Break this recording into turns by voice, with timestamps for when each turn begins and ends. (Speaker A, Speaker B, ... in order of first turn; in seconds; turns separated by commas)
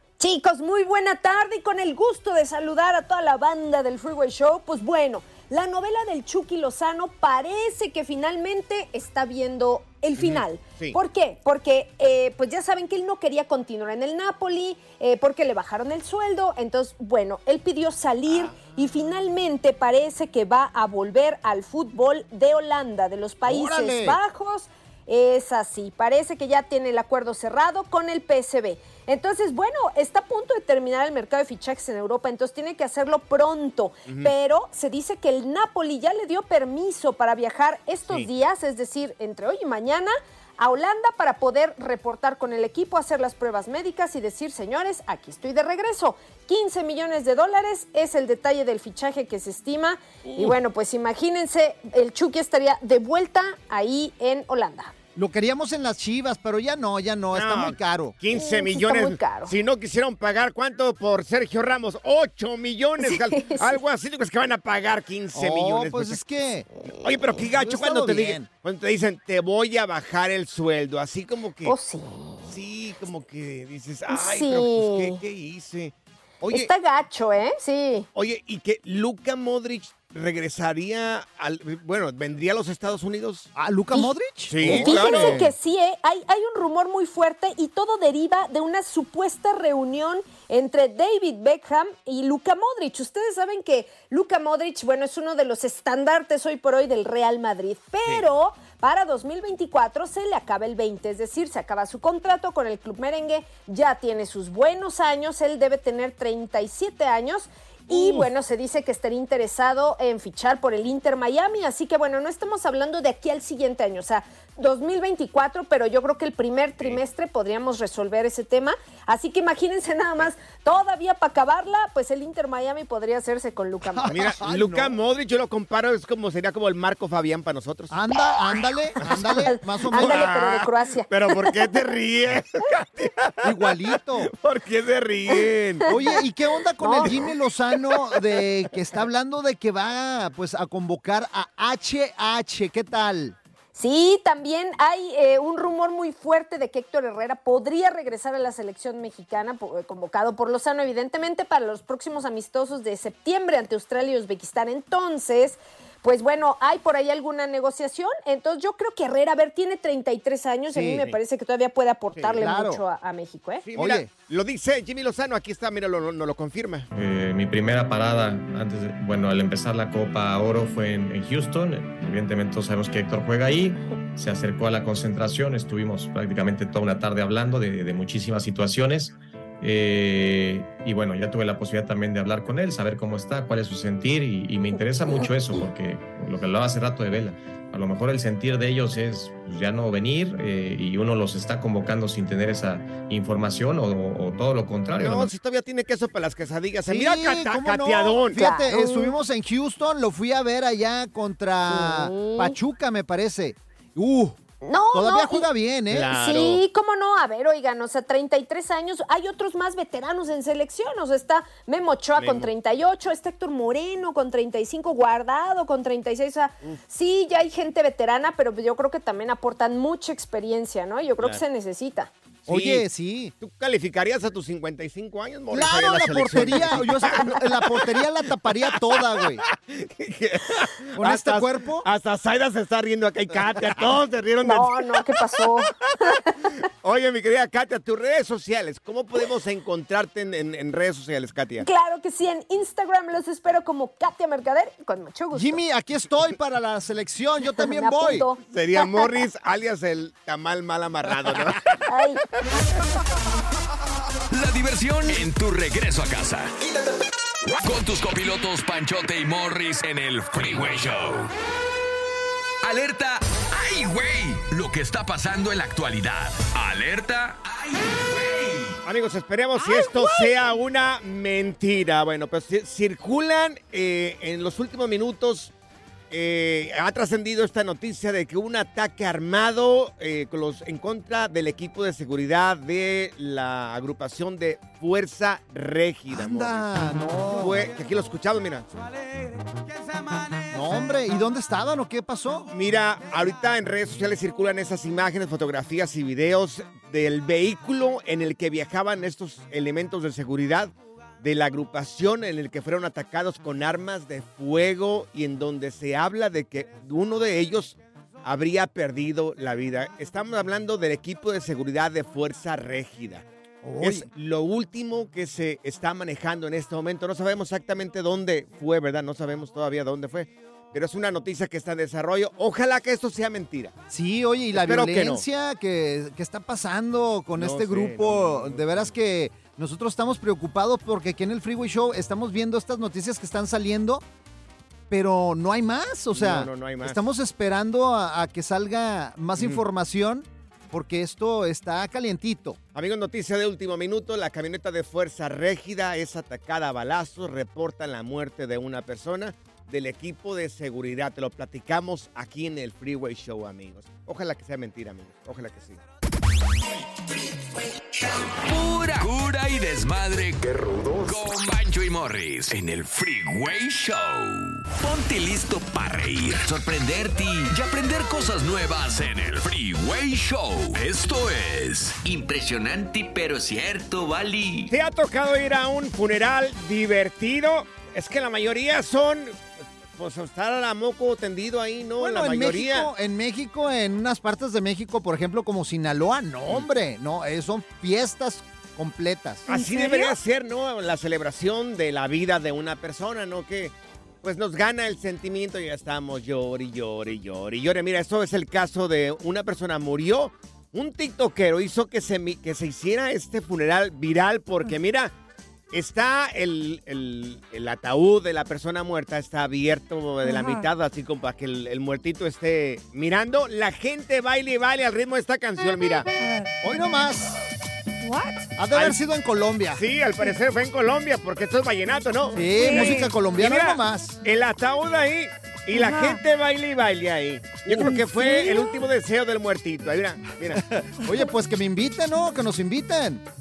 Speaker A: 0.2-54.9, Speaker B: 10.2-11.0, Speaker B: 18.3-18.6, Speaker C: 23.4-24.2, Speaker B: 34.1-34.3, Speaker B: 50.2-50.5, Speaker C: 55.1-58.1, Speaker B: 57.3-66.2, Speaker A: 58.3-59.5, Speaker A: 63.0-63.7, Speaker C: 65.3-66.7, Speaker B: 67.0-71.7, Speaker C: 67.5-68.5, Speaker A: 71.6-72.3, Speaker B: 72.5-76.7, Speaker A: 74.1-75.2, Speaker A: 76.4-78.1, Speaker B: 78.1-83.5, Speaker C: 83.5-85.4, Speaker B: 84.5-85.5, Speaker A: 84.6-124.3, Speaker B: 107.9-108.3, Speaker C: 123.9-124.9, Speaker B: 124.1-128.0, Speaker C: 127.9-130.3, Speaker B: 129.0-136.2, Speaker A: 129.0-131.6, Speaker C: 133.4-134.3, Speaker A: 135.3-136.2, Speaker C: 135.9-143.3, Speaker A: 136.8-137.1, Speaker A: 143.7-163.7, Speaker C: 160.7-161.1, Speaker B: 162.1-162.4, Speaker C: 162.3-162.8, Speaker B: 163.6-166.9, Speaker C: 163.8-164.1, Speaker D: 166.9-195.3, Speaker B: 195.0-198.4, Speaker C: 196.9-204.4, Speaker A: 198.3-199.2, Speaker A: 201.7-202.6, Speaker A: 204.6-205.5, Speaker C: 204.9-206.1, Speaker B: 205.9-206.6, Speaker A: 206.0-222.1, Speaker B: 212.2-212.5, Speaker B: 222.4-222.8, Speaker C: 222.5-223.3, Speaker B: 223.4-228.0, Speaker C: 225.5-229.4, Speaker B: 228.6-235.4, Speaker C: 231.0-231.8, Speaker A: 234.4-236.6, Speaker B: 236.8-241.7, Speaker A: 241.6-245.6, Speaker C: 245.3-248.3, Speaker A: 247.4-249.2, Speaker B: 248.5-251.8, Speaker A: 251.9-252.2, Speaker E: 254.3-256.6, Speaker E: 257.6-261.3, Speaker E: 262.6-268.8, Speaker B: 268.8-275.5, Speaker F: 269.6-270.5, Speaker B: 276.1-286.7, Speaker C: 286.1-287.7, Speaker B: 287.3-288.7, Speaker C: 290.5-292.5, Speaker B: 292.5-313.2, Speaker C: 313.6-314.1, Speaker B: 313.8-323.7, Speaker C: 323.9-334.0, Speaker B: 324.5-325.2, Speaker B: 327.4-328.9, Speaker C: 334.9-342.6, Speaker B: 336.1-337.0, Speaker B: 342.7-355.8, Speaker E: 358.3-374.7, Speaker B: 374.7-382.9, Speaker C: 382.0-389.4, Speaker B: 389.5-405.1, Speaker F: 389.5-390.2, Speaker B: 405.7-416.1, Speaker F: 410.2-410.6, Speaker F: 416.2-416.5, Speaker C: 416.6-417.4, Speaker F: 418.0-418.5, Speaker C: 418.6-419.8, Speaker B: 418.7-419.0, Speaker B: 419.7-430.6, Speaker C: 422.3-424.2, Speaker F: 422.5-423.1, Speaker F: 425.7-426.2, Speaker F: 427.7-428.9, Speaker C: 430.5-433.2